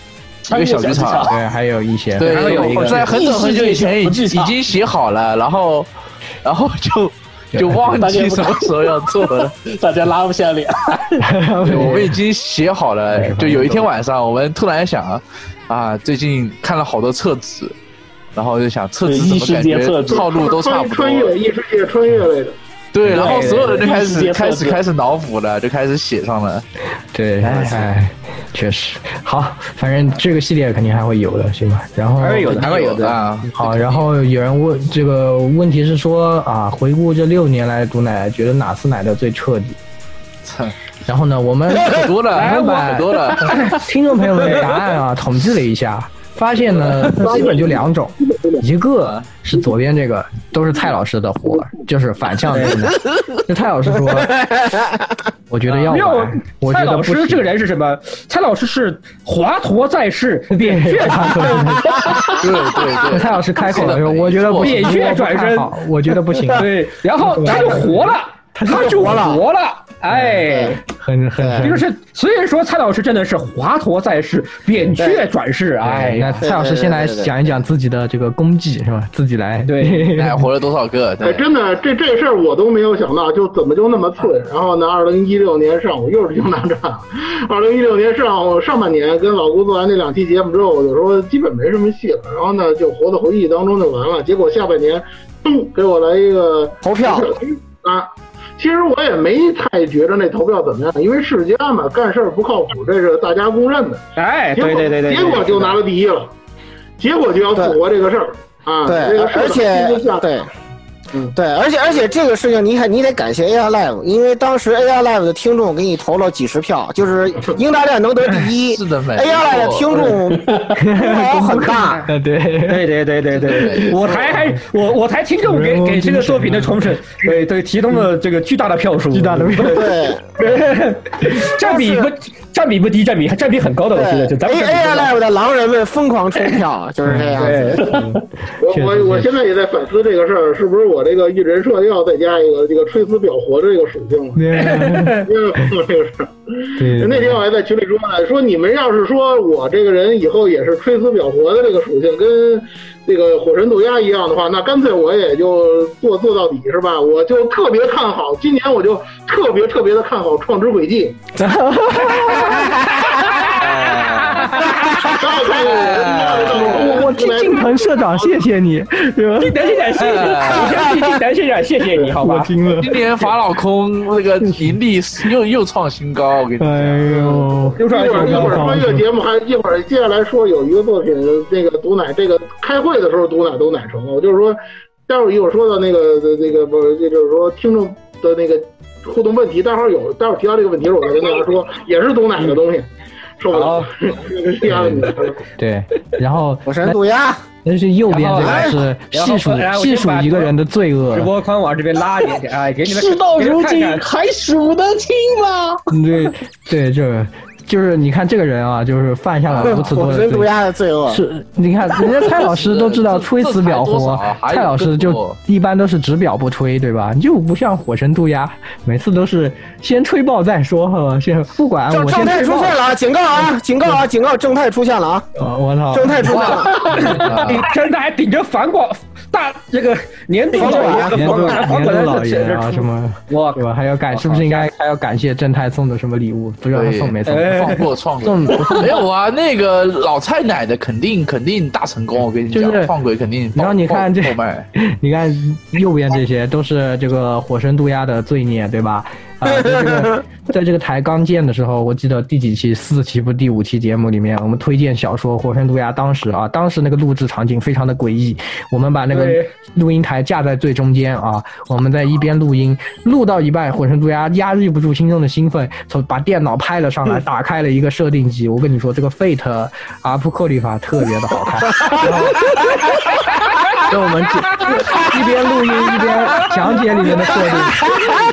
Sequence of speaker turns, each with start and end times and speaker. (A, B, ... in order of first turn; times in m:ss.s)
0:00.5-0:01.4 A
0:00.5-0:01.3 B
0:01.3-0:03.0 C
0:02.2-0:05.9 B
0:02.2-0:03.0 D
0:03.0-0:04.5 A
0:06.4-0:09.6 B
0:07.5-0:08.0 C
0:07.9-0:11.2 A
0:11.2-0:12.2 C
0:11.6-0:17.8 B
0:13.1-0:13.9 C
0:18.4-0:21.4 B
0:19.0-0:20.2 A
0:20.1-0:22.6 E
0:22.9-0:26.6 B
0:23.1-0:24.8 A
0:23.2-0:23.7 D
0:27.1-0:32.7 C
0:27.4-0:27.9 B
0:32.2-0:33.1 D
0:32.5-0:34.0 B
0:33.5-0:39.8 C
0:40.4-0:40.8 B
0:41.1-0:54.5 C
0:41.8-0:43.6 B
0:42.3-0:42.8 D
0:43.5-0:43.7 D
0:44.4-0:44.7 D
0:52.5-0:52.8 D
0:55.5-0:57.5 C
0:55.7-1:01.6 D
1:00.5-1:02.3 C
1:02.4-1:05.0 B
1:03.1-1:09.2 C
1:04.6-1:05.7 D
1:06.5-1:10.8 D
1:07.5-1:07.8 F
1:08.6-1:09.4 F
1:10.1-1:11.9 C
1:10.5-1:10.8 F
1:11.4-1:11.6 F
1:11.6-1:16.4 D
1:15.0-1:15.2 F
1:15.8-1:20.5 C
1:16.4-1:17.3 F
1:19.7-1:20.1 D
1:20.2-1:21.5 B
1:21.2-1:44.0 E
1:36.8-1:37.3 F
1:44.2-1:45.8 D
1:44.6-1:46.3 E
1:47.0-1:50.2 E
1:48.9-1:50.5 F
1:51.4-2:02.0 F
1:58.6-2:00.0 B
2:00.1-2:00.8 A
2:00.8-2:02.9 C
2:02.7-2:09.8 D
2:03.4-2:04.0 B
2:05.4-2:07.0 C
2:09.1-2:10.0 C
2:09.6-2:10.3 F
2:10.4-2:15.1 D
2:11.4-2:12.1 F
2:13.9-2:17.9 F
2:17.0-2:19.3 C
2:17.4-2:17.9 D
2:18.6-2:24.5 E
2:24.4-2:25.7 C
2:24.6-2:25.3 D
2:25.2-2:41.2 E
2:26.8-2:27.4 C
2:41.4-2:42.8 C
2:42.0-2:45.2 D
2:43.5-2:47.1 B
2:45.1-2:48.4 E
2:46.3-2:49.8 C
2:49.4-2:52.5 D
2:50.0-2:50.8 B
2:50.6-2:50.9 F
2:52.2-2:53.3 C
2:52.8-2:57.1 B
2:54.4-2:54.8 C
2:56.6-2:59.1 C
2:57.1-2:58.7 D
2:57.8-3:12.9 E
3:13.4-3:15.4 E
3:13.5-3:13.9 D
3:14.6-3:17.0 C
3:16.7-3:17.4 F
3:17.6-3:21.3 C
3:18.1-3:20.5 D
3:21.1-3:24.0 D
3:22.8-3:25.8 A
3:25.9-3:30.5 C
3:29.5-3:29.8 B
3:29.6-3:31.2 F
3:31.1-3:42.8 C
3:32.4-3:35.4 B
3:41.9-3:45.3 F
3:43.4-3:44.0 C
3:45.4-3:47.5 C
3:45.9-3:47.2 F
3:46.5-3:54.7 D
3:47.0-3:47.6 B
3:50.5-3:51.5 F
3:50.7-3:59.0 C
3:56.7-4:04.7 B
3:57.3-3:57.8 D
4:02.5-4:02.9 C
4:03.6-4:32.6 C
4:19.1-4:19.5 D
4:33.9-4:38.0 C